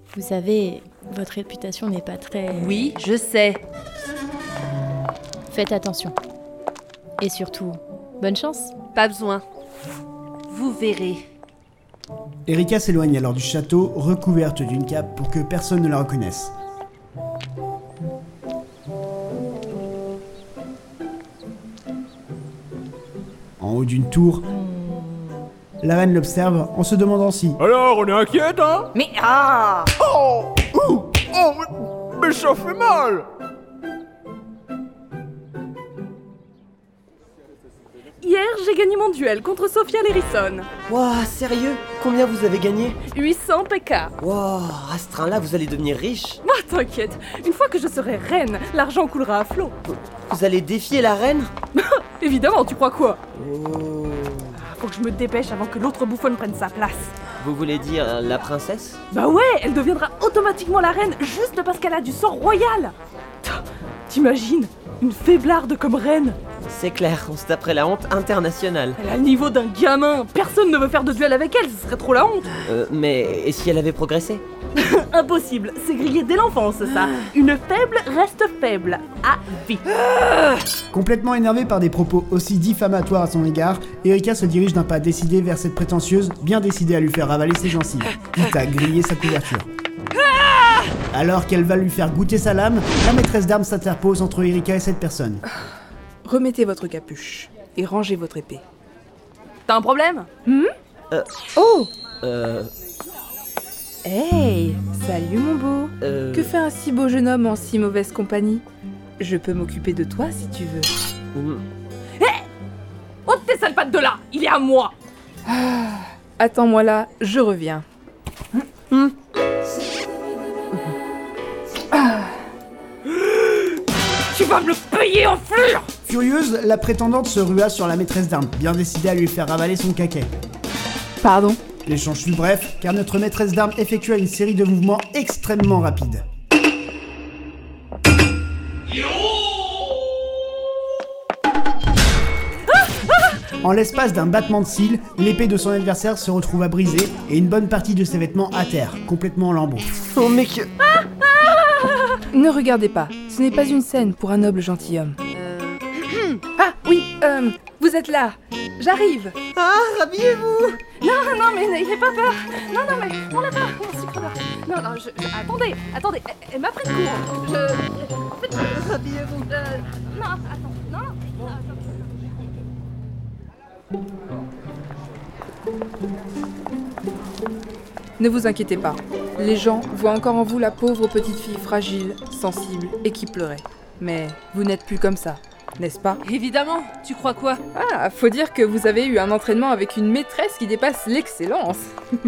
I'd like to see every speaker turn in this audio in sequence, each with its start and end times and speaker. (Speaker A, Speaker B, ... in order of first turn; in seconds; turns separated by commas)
Speaker A: 0.1-2.9, Speaker B: 2.5-3.6, Speaker A: 5.5-6.2, Speaker A: 7.2-8.7, Speaker B: 8.9-9.4, Speaker B: 10.5-11.2, Speaker C: 12.5-16.5, Speaker C: 23.6-24.5, Speaker C: 25.8-27.6, Speaker D: 27.6-28.9, Speaker E: 28.9-29.9, Speaker D: 30.0-33.2, Speaker E: 38.2-40.7, Speaker F: 40.9-43.0, Speaker E: 43.0-44.1, Speaker F: 44.2-46.4, Speaker E: 46.4-49.7, Speaker F: 49.9-51.5, Speaker E: 51.7-53.2, Speaker F: 53.3-54.5, Speaker E: 54.5-57.1, Speaker F: 57.4-59.0, Speaker E: 59.1-66.4, Speaker F: 66.7-69.0, Speaker E: 69.0-72.6, Speaker F: 72.7-74.4, Speaker E: 74.7-79.8, Speaker B: 76.9-77.2, Speaker C: 80.9-89.7, Speaker C: 91.1-95.4, Speaker G: 96.2-98.6, Speaker E: 99.7-100.3, Speaker G: 100.5-100.7, Speaker G: 101.5-101.9, Speaker F: 102.2-102.7, Speaker G: 104.0-108.6, Speaker F: 106.0-106.5, Speaker G: 109.2-110.9, Speaker F: 111.3-111.6, Speaker E: 112.2-112.4, Speaker E: 113.2-114.9, Speaker G: 115.5-117.8, Speaker E: 123.1-123.7, Speaker E: 124.3-125.9, Speaker C: 126.0-130.3, Speaker G: 131.2-131.6, Speaker C: 131.8-136.2, Speaker C: 143.6-149.9, Speaker F: 150.0-150.7, Speaker G: 152.3-155.2, Speaker B: 155.3-156.4, Speaker G: 156.6-159.3, Speaker F: 159.5-160.8, Speaker E: 161.0-171.1, Speaker G: 178.2-186.2, Speaker B: 186.2-187.6, Speaker G: 187.7-191.9